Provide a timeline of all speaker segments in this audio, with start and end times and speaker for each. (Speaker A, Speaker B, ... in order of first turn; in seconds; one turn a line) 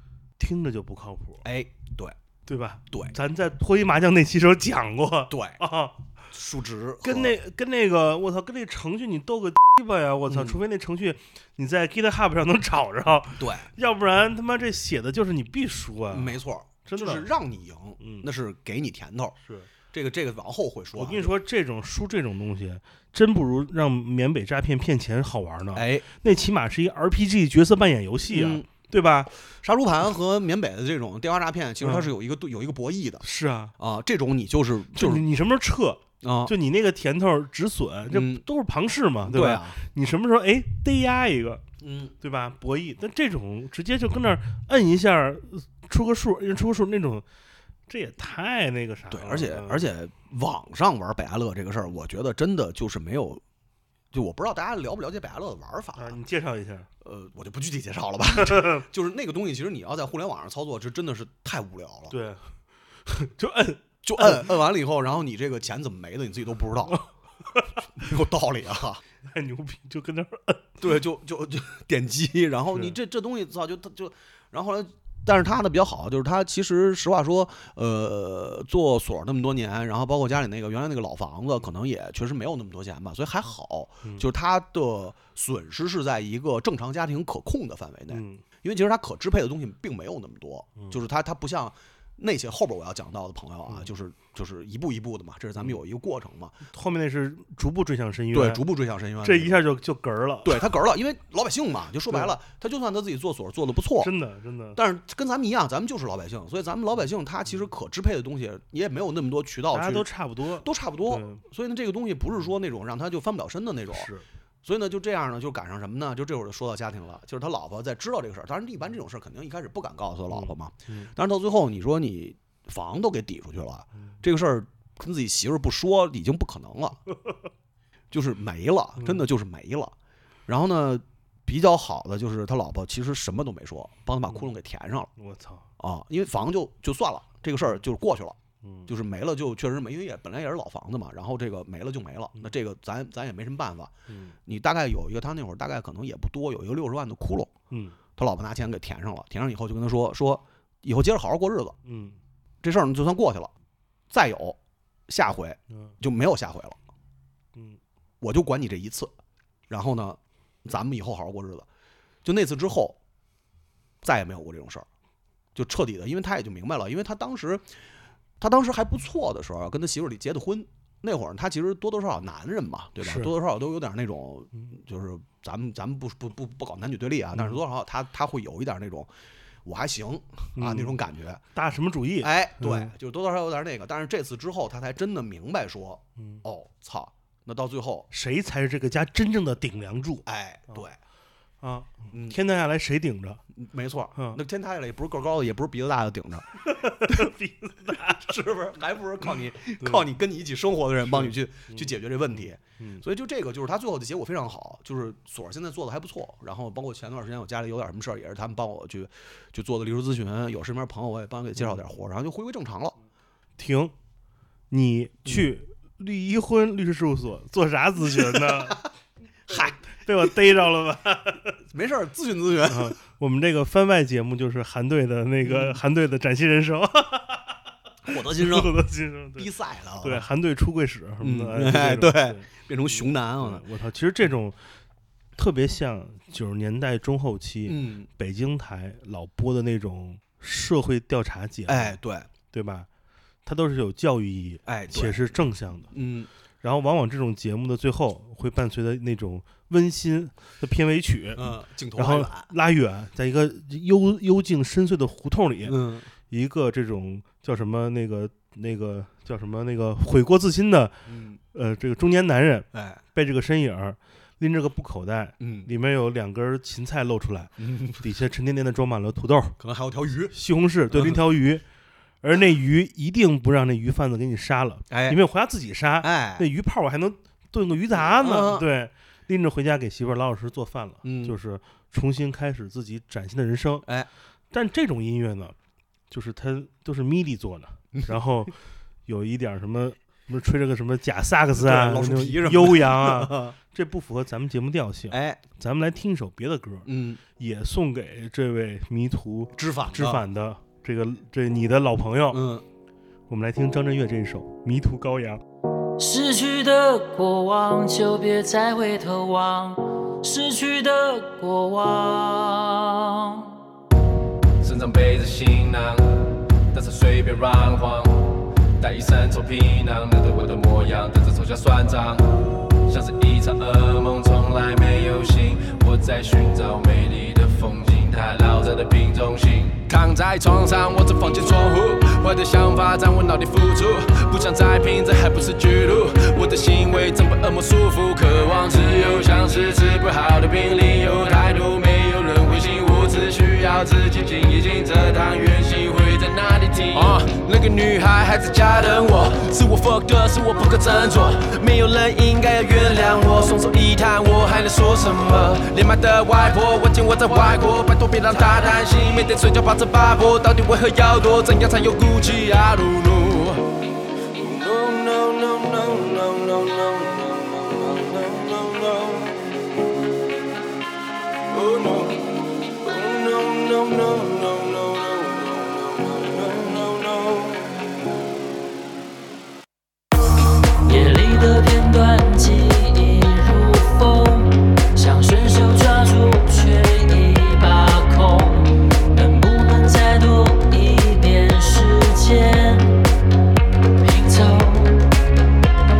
Speaker A: 0.4-1.4
Speaker B: 1.4-2.2
Speaker A: 2.5-6.0
Speaker B: 2.9-3.1
Speaker B: 5.3-5.6
Speaker B: 6.3-7.3
Speaker A: 7.0-17.3
Speaker B: 10.3-10.6
Speaker B: 13.4-13.7
Speaker B: 16.1-19.4
Speaker A: 18.0-18.3
Speaker A: 19.4-19.7
Speaker B: 19.9-21.3
Speaker A: 21.0-29.3
Speaker B: 25.7-26.1
Speaker B: 28.3-28.7
Speaker B: 29.5-33.3
Speaker A: 31.8-32.1
Speaker A: 33.2-33.7
Speaker B: 33.8-35.2
Speaker A: 35.0-41.6
Speaker B: 36.2-36.5
Speaker B: 38.1-38.4
Speaker B: 39.2-39.8
Speaker B: 41.8-42.1
Speaker A: 42.2-47.2
Speaker A: 47.9-49.9
Speaker B: 49.1-53.4
Speaker B: 54.1-56.2
Speaker A: 56.0-56.9
Speaker B: 57.0-62.2
Speaker A: 58.4-58.9
Speaker A: 62.1-62.5
Speaker A: 63.1-64.5
Speaker B: 64.0-67.1
Speaker A: 67.5-67.8
Speaker B: 68.0-69.0
Speaker A: 69.3-70.8
Speaker B: 70.8-96.6
Speaker A: 88.1-88.4
Speaker A: 96.7-98.6
Speaker B: 98.3-99.6
Speaker A: 99.2-100.7
Speaker B: 100.4-104.1
Speaker A: 104.0-104.8
Speaker B: 104.8-110.1
Speaker A: 109.7-111.4
Speaker B: 110.6-114.1
Speaker A: 113.9-114.2
Speaker B: 114.6-127.0
Speaker A: 120.3-121.1
Speaker B: 128.1-129.9
Speaker A: 129.0-129.2
Speaker B: 130.5-135.1
Speaker A: 135.2-135.7
Speaker B: 135.8-143.9
Speaker A: 138.6-138.9
Speaker A: 144.1-144.3
Speaker B: 144.5-147.5
Speaker A: 147.7-148.0
Speaker B: 148.2-151.8
Speaker A: 151.8-152.2
Speaker B: 152.6-153.5
Speaker B: 154.1-154.6
Speaker B: 155.1-156.8
Speaker B: 158.2-159.1
Speaker B: 159.7-161.7
Speaker B: 162.2-163.0
Speaker B: 164.0-164.9
Speaker B: 165.6-167.7
Speaker B: 168.4-179.1
Speaker A: 173.0-173.3
Speaker A: 177.3-177.6
Speaker B: 179.7-181.4
Speaker A: 180.6-181.0
Speaker A: 181.6-182.9
Speaker B: 182.2-188.1
Speaker A: 186.2-186.4
Speaker A: 188.1-190.9
Speaker B: 190.3-191.0
Speaker A: 191.6-193.4
Speaker B: 192.1-192.4
Speaker B: 193.5-196.5
Speaker A: 194.2-194.4
Speaker A: 196.6-198.3
Speaker B: 197.0-197.3
Speaker B: 198.0-213.0
Speaker A: 199.8-200.1
Speaker A: 201.1-203.0
Speaker A: 211.6-211.8
Speaker A: 213.6-213.9
Speaker A: 214.7-218.8
Speaker B: 218.0-218.8
Speaker B: 219.5-219.8
Speaker A: 219.5-221.6
Speaker B: 221.7-223.0
Speaker A: 222.7-227.6
Speaker B: 225.4-225.8
Speaker B: 228.0-228.8
Speaker A: 228.3-229.5
Speaker B: 229.4-230.3
Speaker A: 230.0-234.6
Speaker B: 231.2-233.6
Speaker A: 235.4-242.0
Speaker B: 237.7-238.1
Speaker B: 241.7-242.3
Speaker A: 242.5-242.9
Speaker A: 243.5-245.9
Speaker B: 244.7-246.3
Speaker A: 246.6-261.0
Speaker B: 251.4-252.5
Speaker B: 255.7-256.1
Speaker B: 261.1-261.4
Speaker A: 261.5-269.6
Speaker B: 262.7-263.0
Speaker B: 265.4-265.7
Speaker B: 267.6-268.1
Speaker B: 269.6-270.4
Speaker A: 270.3-271.6
Speaker B: 270.9-271.3
Speaker A: 272.2-283.9
Speaker B: 274.9-275.2
Speaker B: 276.0-276.5
Speaker B: 277.9-278.7
Speaker B: 281.0-281.4
Speaker A: 284.5-285.6
Speaker A: 286.1-288.6
Speaker A: 289.1-302.4
Speaker B: 291.6-293.6
Speaker B: 295.1-295.4
Speaker B: 296.9-297.2
Speaker B: 299.6-300.2
Speaker B: 302.3-302.6
Speaker A: 303.3-305.4
Speaker C: 306.0-313.6
Speaker D: 314.6-363.7
Speaker D: 364.4-369.4
Speaker D: 371.5-372.3
Speaker D: 372.8-377.6
Speaker C: 380.9-393.0
Speaker C: 394.0-395.1